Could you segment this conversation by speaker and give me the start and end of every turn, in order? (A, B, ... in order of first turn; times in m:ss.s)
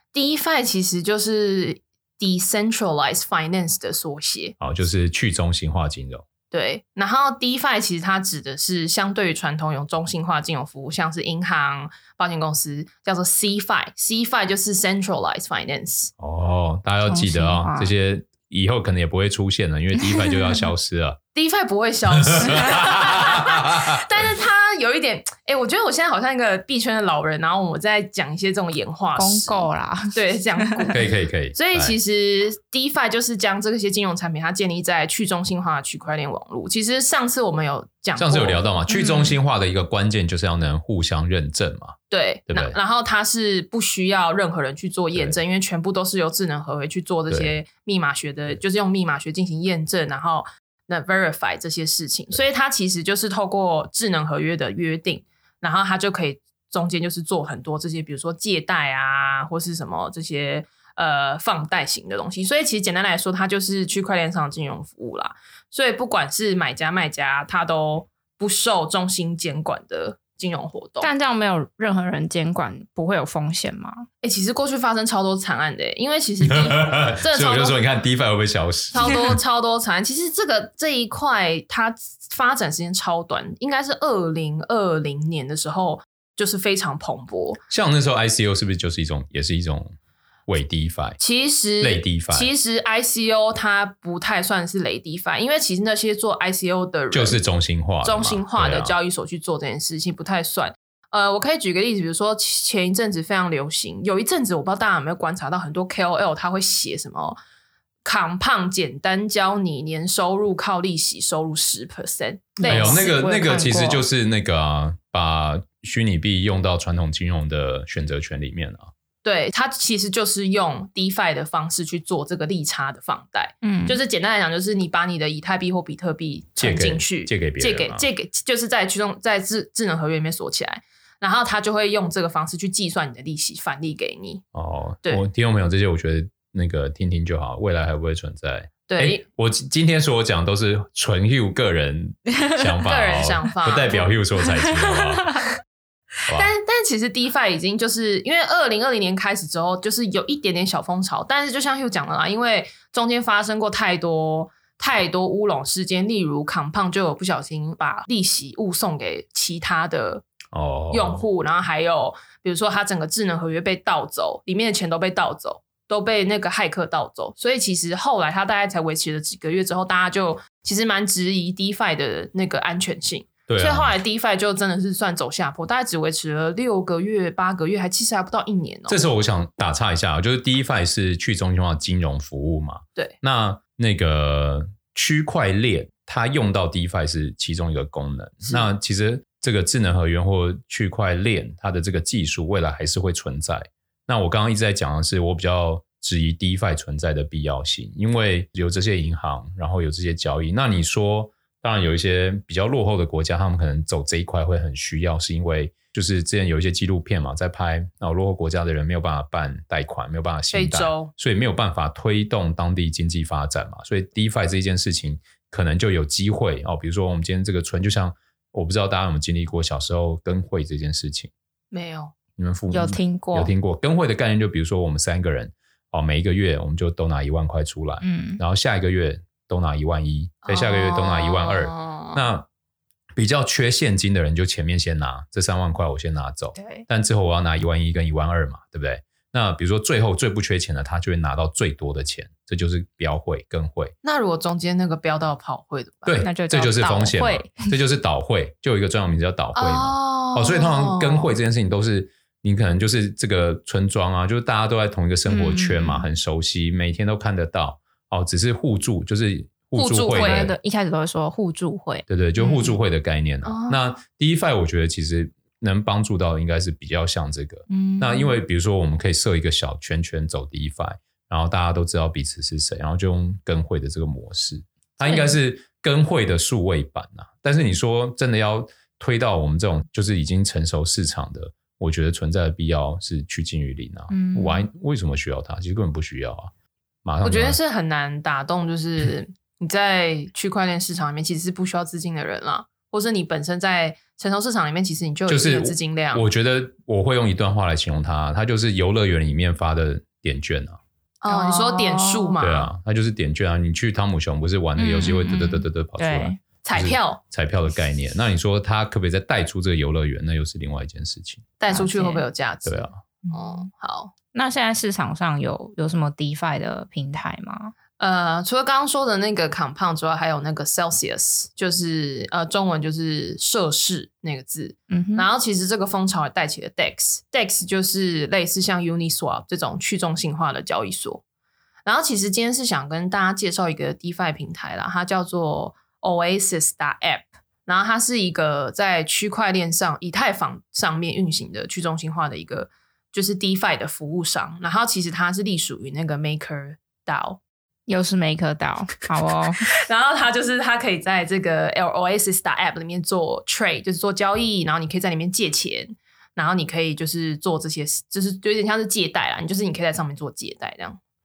0:00.1-0:04.6 A
0:04.6-0:06.2 B
0:06.5-0:16.1 A
0:16.2-0:21.2 B
0:17.0-0:17.9 C
0:20.0-0:20.6 C
0:21.3-0:38.6 A
0:22.2-0:24.3 B
0:29.2-0:31.0 C
0:30.9-0:32.0 B
0:38.2-0:42.0 B
0:38.9-0:39.4 C
0:42.1-1:11.1 A
0:42.5-0:42.8 B
0:47.3-0:47.5 B
1:11.0-1:14.1 C
1:14.2-1:17.8 A
1:16.4-1:19.4 B
1:18.9-1:27.6 A
1:27.7-1:29.9 B
1:30.5-1:31.2 B
1:31.2-1:37.4 A
1:31.8-1:32.5 B
1:37.1-1:38.9 B
1:38.0-1:47.4 A
1:48.0-1:53.1 A
1:52.6-1:54.0 C
1:52.7-1:58.9 B
1:59.2-2:14.4 A
2:03.6-2:04.0 C
2:06.6-2:08.1 B
2:14.5-2:25.4 B
2:18.9-2:19.2 A
2:22.8-2:24.2 A
2:26.3-2:40.2 A
2:40.5-2:41.2 B
2:40.9-2:59.0 A
2:53.5-2:53.9 B
2:58.9-3:41.3 B
3:30.5-3:31.1 A
3:41.7-3:42.1 A
3:42.4-3:52.5 B
3:42.7-3:43.5 C
3:48.0-3:48.4 C
3:50.4-3:52.3 A
3:53.2-4:03.9 B
4:04.0-4:06.3 A
4:06.0-4:20.6 B
4:06.2-4:07.7 C
4:09.6-4:11.3 A
4:15.3-4:16.1 C
4:19.8-4:20.5 A
4:20.1-4:22.0 C
4:22.1-4:46.5 B
4:23.4-4:23.8 A
4:27.7-4:28.4 C
4:35.0-4:35.4 C
4:44.1-4:44.7 C
4:47.0-4:47.6 B
4:47.2-4:56.3 A
4:55.3-5:00.8 B
5:01.2-5:02.7 A
5:01.3-5:02.4 C
5:02.4-5:11.5 B
5:04.8-5:06.4 C
5:06.6-5:07.2 A
5:11.6-5:14.1 A
5:11.7-5:12.2 C
5:12.7-5:13.0 B
5:13.3-5:13.7 C
5:14.3-5:17.7 C
5:18.0-5:31.2 A
5:24.9-5:25.3 C
5:31.8-5:47.4 A
5:47.9-5:49.7 C
5:49.9-6:01.0 A